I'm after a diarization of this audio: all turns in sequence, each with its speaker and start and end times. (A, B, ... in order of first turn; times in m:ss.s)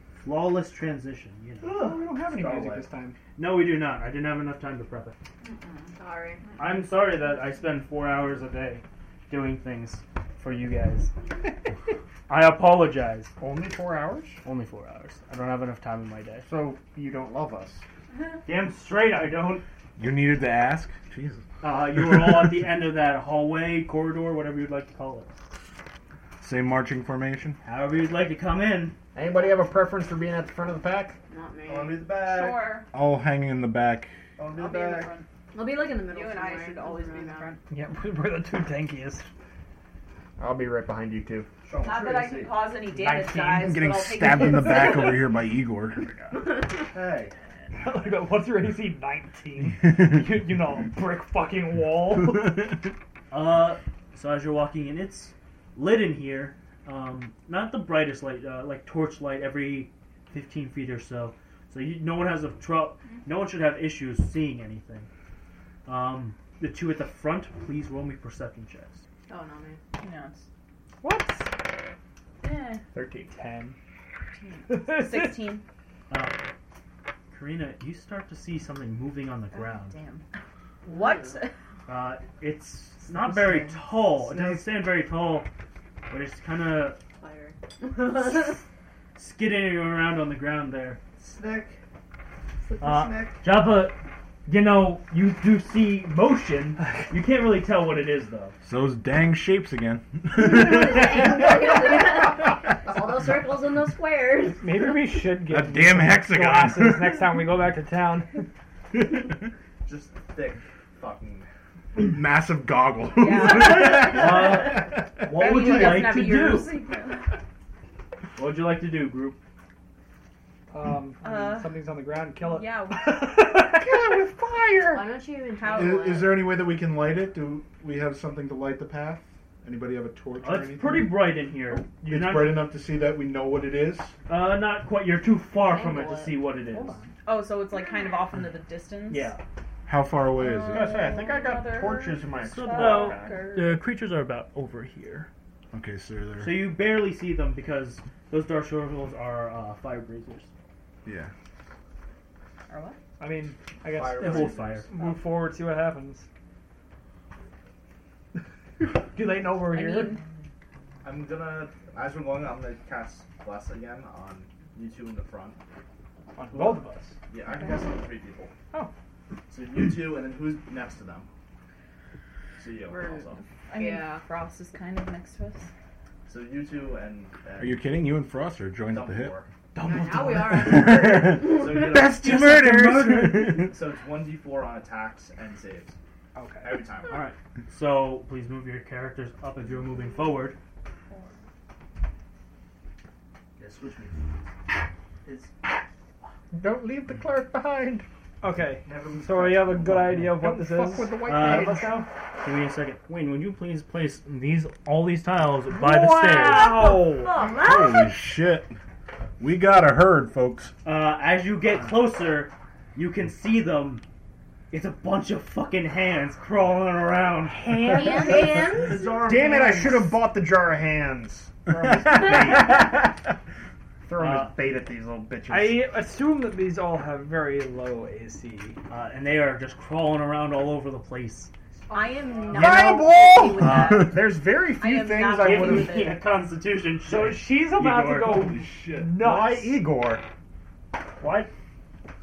0:00.2-0:02.0 A
0:01.6-0:03.2 B
0:01.8-0:02.9 C
0:03.4-0:05.2 A
0:05.4-0:06.8 D
0:06.0-0:06.4 E
0:06.6-0:11.1 A
0:12.3-0:13.3 A
0:13.4-0:14.4 F
0:14.4-0:16.5 A
0:16.4-0:17.8 F
0:18.4-0:19.6 A
0:20.0-0:21.4 G
0:21.6-0:25.3 A
0:21.9-0:22.6 G
0:26.4-0:27.6 G
0:27.6-0:29.0 A
0:29.1-0:31.2 F
0:31.3-0:32.1 E
0:31.7-0:32.8 C
0:32.2-0:32.9 D
0:32.9-0:34.1 G
0:34.4-0:35.1 C
0:34.5-0:35.3 D
0:35.5-0:37.5 E
0:36.0-0:37.6 D
0:37.7-0:39.3 B
0:40.4-0:41.5 F
0:41.6-0:42.7 C
0:41.8-0:45.3 D
0:42.8-0:43.9 B
0:43.6-0:46.1 G
0:46.7-0:47.4 C
0:47.8-0:52.8 B
0:53.3-1:05.1 A
1:05.9-1:09.0 A
1:09.3-1:09.8 E
1:10.0-1:10.5 D
1:11.0-1:11.5 B
1:12.4-1:12.8 D
1:12.9-1:13.3 F
1:13.3-1:13.8 B
1:14.4-1:15.6 D
1:14.7-1:15.6 B
1:16.1-1:16.4 A
1:17.3-1:20.0 A
1:19.5-1:20.2 D
1:20.8-1:21.6 D
1:20.9-1:21.3 E
1:21.9-1:25.5 A
1:23.2-1:24.7 C
1:26.1-1:27.0 A
1:27.2-1:28.6 E
1:29.2-1:31.0 A
1:31.2-1:31.8 C
1:32.7-1:33.4 C
1:32.8-1:38.6 A
1:38.6-1:41.7 G
1:40.3-1:44.9 E
1:44.6-1:48.4 B
1:45.4-1:47.4 G
1:49.8-1:51.5 C
1:52.0-1:55.1 G
1:53.1-1:57.4 D
1:53.9-1:56.7 A
1:58.4-1:59.4 A
2:00.7-2:04.0 B
2:01.2-2:03.6 D
2:03.7-2:05.1 F
2:04.9-2:06.5 E
2:05.6-2:06.1 D
2:05.7-2:11.2 G
2:10.4-2:12.7 A
2:12.0-2:14.2 G
2:14.3-2:17.0 A
2:15.6-2:16.4 E
2:16.7-2:17.1 B
2:17.2-2:19.3 D
2:17.7-2:18.2 E
2:19.1-2:19.4 A
2:19.9-2:21.0 G
2:20.4-2:23.8 D
2:20.7-2:23.4 F
2:22.4-2:25.3 A
2:25.7-2:26.7 G
2:26.4-2:30.5 A
2:31.0-2:31.3 G
2:32.7-2:33.0 D
2:33.2-2:36.3 B
2:33.8-2:35.0 C
2:34.1-2:34.9 A
2:38.8-2:40.2 B
2:39.6-2:40.2 D
2:41.0-2:45.6 C
2:46.4-2:47.2 B
2:46.5-2:48.5 C
2:49.5-2:51.3 C
2:52.6-2:53.4 C
2:52.8-2:54.2 E
2:53.7-2:55.7 D
2:56.3-2:57.9 C
2:57.6-2:59.4 G
2:58.8-2:59.5 C
2:59.8-3:00.7 A
2:59.8-3:01.7 E
3:00.4-3:03.7 G
3:00.8-3:02.3 C
3:02.1-3:03.7 A
3:03.6-3:06.0 C
3:06.4-3:06.9 B
3:06.6-3:07.3 C
3:07.1-3:10.6 A
3:13.6-3:14.4 C
3:15.2-3:15.7 C
3:16.5-3:18.0 F
3:18.4-3:22.1 B
3:18.8-3:20.1 C
3:20.4-3:21.9 F
3:21.3-3:26.9 A
3:25.7-3:27.4 B
3:26.4-3:27.9 D
3:27.4-3:28.7 G
3:27.5-3:28.1 E
3:29.4-3:30.7 G
3:30.8-3:34.0 A
3:34.7-3:38.0 A
3:37.6-3:38.7 B
3:37.9-3:39.0 E
3:38.3-3:40.2 C
3:39.2-3:43.1 F
3:44.1-3:45.9 F
3:44.2-3:44.6 A
3:45.5-3:48.8 B
3:48.9-3:51.5 A
3:51.9-3:52.8 C
3:51.9-3:56.2 D
3:52.5-3:56.0 F
3:53.6-3:54.1 G
3:55.4-3:58.5 A
3:57.1-3:59.8 B
3:58.3-3:59.2 G
3:59.2-4:00.2 F
4:01.2-4:01.5 F